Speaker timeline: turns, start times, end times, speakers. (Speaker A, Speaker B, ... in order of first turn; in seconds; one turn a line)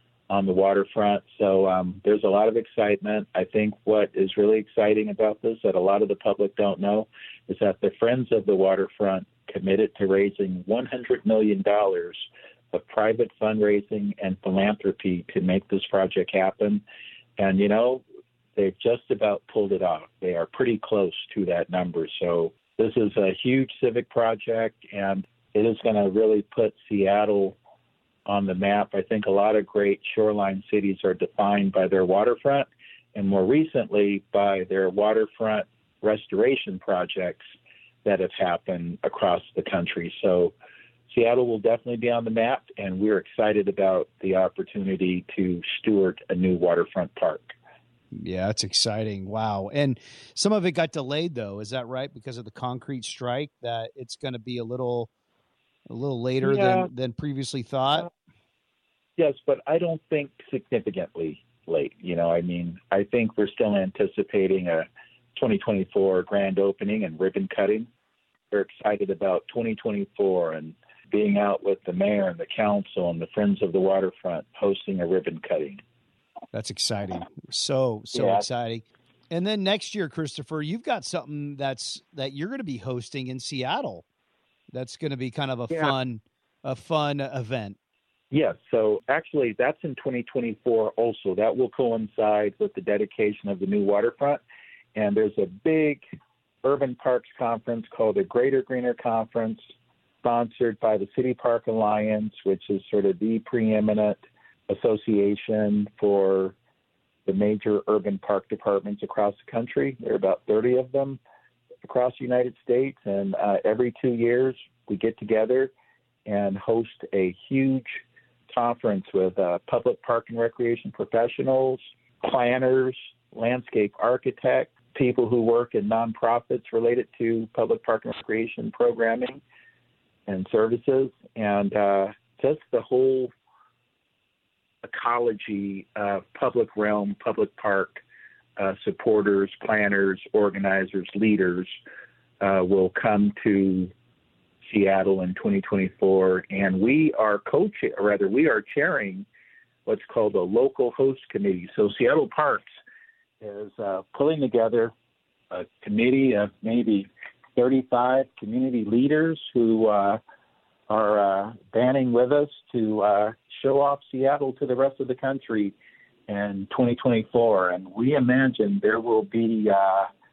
Speaker A: 0.3-16.8
Speaker A: 17.4-18.0
Speaker A: 18.6-27.6
Speaker A: 28.3-37.4
Speaker A: 38.0-40.5
Speaker A: 41.1-47.5
Speaker B: 48.1-55.1
Speaker B: 55.9-58.1
Speaker A: 56.4-56.9
Speaker A: 59.2-67.9
Speaker A: 68.5-75.8
Speaker B: 76.5-84.0
Speaker A: 78.1-78.4
Speaker B: 84.7-87.8
Speaker A: 88.3-94.4
Speaker A: 94.9-96.0
Speaker A: 96.6-99.6
Speaker A: 100.2-106.5
Speaker A: 107.2-111.2
Speaker A: 111.8-115.7
Speaker A: 116.2-129.4
Speaker A: 130.3-133.3
Speaker A: 134.8-138.0
Speaker A: 138.6-141.8
Speaker A: 142.4-143.9
Speaker A: 144.6-149.2
Speaker A: 149.8-152.6
Speaker A: 153.4-154.9
Speaker A: 155.5-160.2
Speaker A: 160.9-165.7
Speaker A: 166.3-170.1